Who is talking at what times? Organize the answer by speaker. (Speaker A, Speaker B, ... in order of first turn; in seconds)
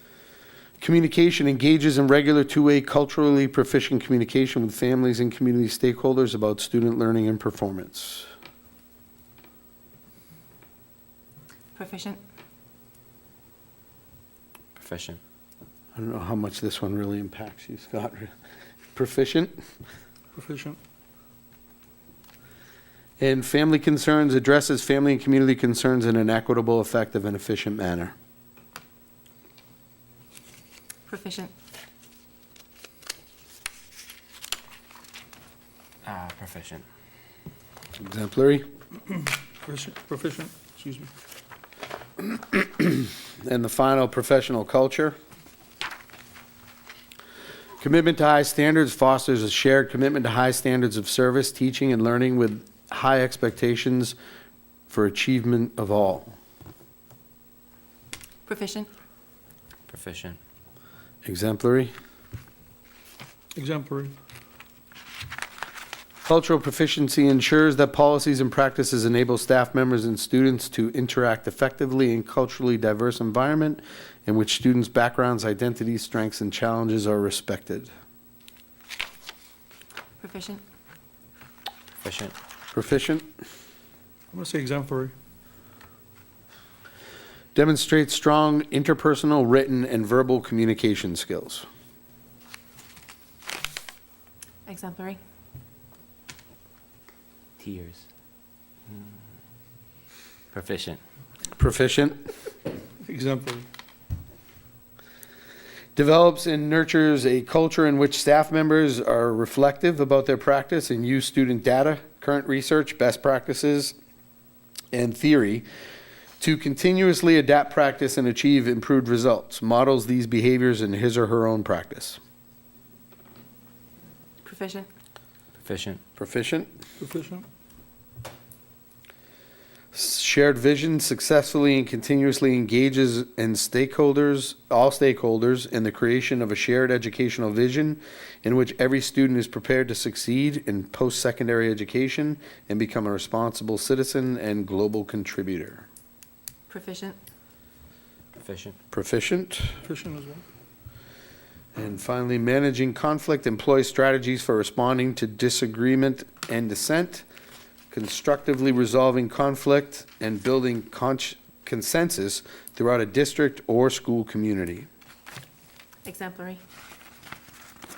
Speaker A: 0.8-8.3, 15.9-18.3, 18.9-19.5, 23.2-28.1, 38.0-38.6, 42.2-45.2, 47.8-54.1, 54.9-56.3, 61.2-61.9, 66.2-77.9, 82.7-83.3, 87.5-91.7, 101.6-102.3, 106.0-114.0, 114.9-115.7, 116.4-122.2, 126.2-126.7, 129.9-145.8, 148.9-149.8, 151.7-157.2, 157.9-164.9
Speaker B: 11.7-12.2, 31.1-31.5, 58.5-58.9, 80.2-80.6, 94.7-95.2, 124.4-124.9, 146.7-147.2, 166.0-166.6
Speaker C: 14.7-15.2, 36.0-36.8, 59.9-60.4, 82.0-82.3, 97.6-98.0, 100.5-101.0, 125.6-126.0, 148.4-148.8
Speaker D: 20.3-20.8, 39.1-41.1, 63.5-64.1, 84.3-85.1, 103.0-103.7, 127.0-127.5, 149.8-150.4